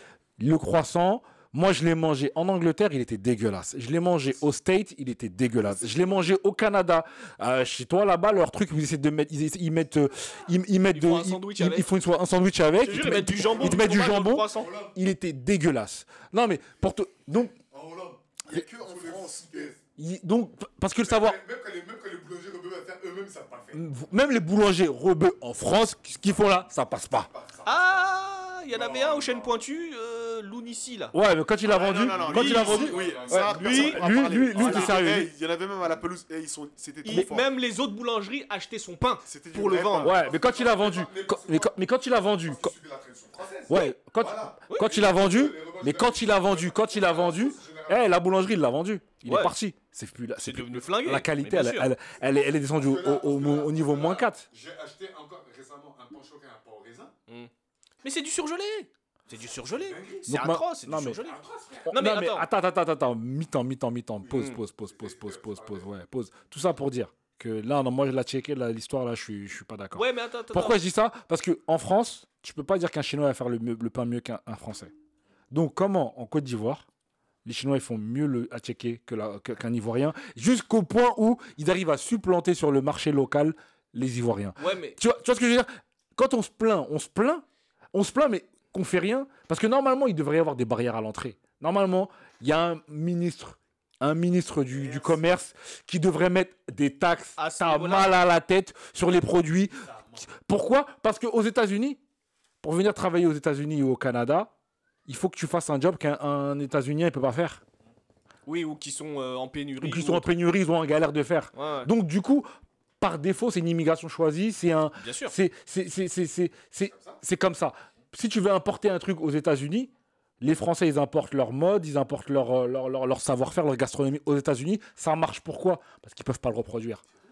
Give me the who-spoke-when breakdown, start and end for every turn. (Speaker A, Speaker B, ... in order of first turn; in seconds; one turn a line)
Speaker A: 0.4-17.6
Speaker B: 10.9-11.9
Speaker B: 12.8-14.7
Speaker C: 13.0-13.9
Speaker D: 13.4-13.8
Speaker D: 14.5-14.9
Speaker D: 17.6-19.8
Speaker C: 18.5-19.7
Speaker A: 20.0-21.4
Speaker D: 21.0-23.8
Speaker A: 23.7-27.3
Speaker D: 27.1-28.1
Speaker B: 27.6-31.1
Speaker D: 28.7-29.5
Speaker A: 31.1-35.3
Speaker C: 31.6-37.5
Speaker B: 31.7-32.9
Speaker D: 32.0-33.6
Speaker B: 33.5-35.0
Speaker B: 37.0-40.1
Speaker A: 37.1-37.4
Speaker C: 39.2-40.2
Speaker A: 40.0-42.7
Speaker D: 40.2-48.2
Speaker A: 43.7-54.5
Speaker B: 44.7-44.9
Speaker B: 49.2-49.5
Speaker B: 50.4-51.9
Speaker D: 52.7-57.1
Speaker B: 58.0-62.5
Speaker D: 59.8-60.3
Speaker A: 60.3-61.2
Speaker D: 61.2-61.9
Speaker A: 61.9-74.9
Speaker D: 64.2-65.9
Speaker B: 64.3-64.6
Speaker B: 69.9-70.8
Speaker A: 75.5-76.9
Speaker A: 77.4-102.0
Speaker B: 84.6-85.0
Speaker C: 94.7-95.3
Speaker B: 97.4-98.1
Speaker A: 102.6-104.5
Speaker A: 105.1-107.6
Speaker B: 108.5-110.3
Speaker A: 109.8-112.5
Speaker B: 111.5-111.9
Speaker A: 113.0-127.0
Speaker B: 115.0-115.3